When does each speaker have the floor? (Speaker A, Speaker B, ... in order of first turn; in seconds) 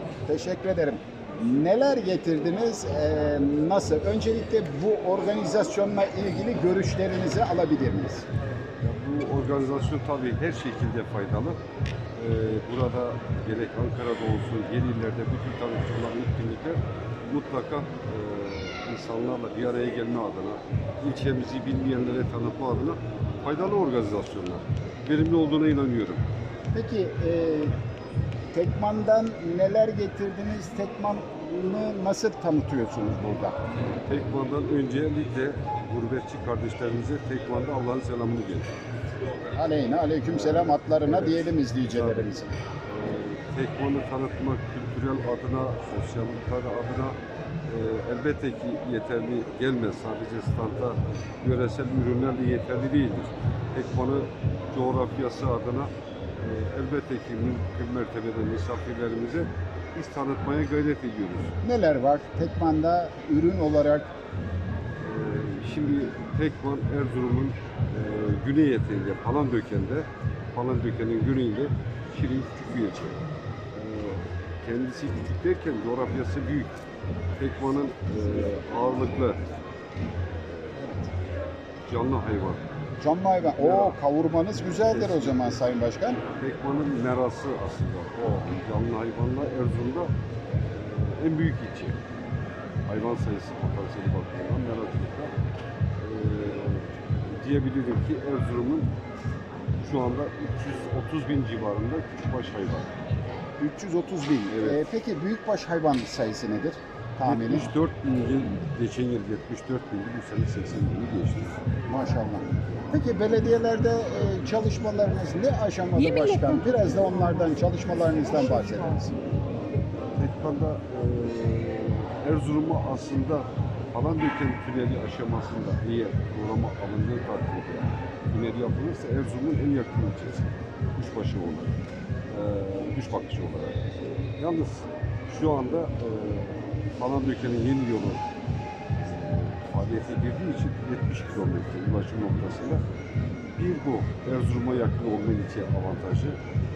Speaker A: 0.3-8.3, 26.7-27.7, 28.5-33.6, 39.5-42.5, 61.6-64.1, 83.0-86.2, 103.6-107.7, 111.9-119.1
Speaker B: 8.8-11.6, 12.2-26.2, 34.1-38.7, 40.3-42.3, 42.8-47.2, 47.7-61.5, 65.0-73.2, 73.7-76.8, 77.4-79.4, 80.4-81.1, 81.9-82.7, 83.4-84.0, 84.9-85.6, 86.4-90.1, 90.7-92.0, 92.9-95.3, 96.0-98.9, 99.8-102.9, 104.5-104.8, 107.2-111.6, 120.1-131.7, 132.3-133.8, 134.4-138.2, 139.0-142.8, 143.6-146.4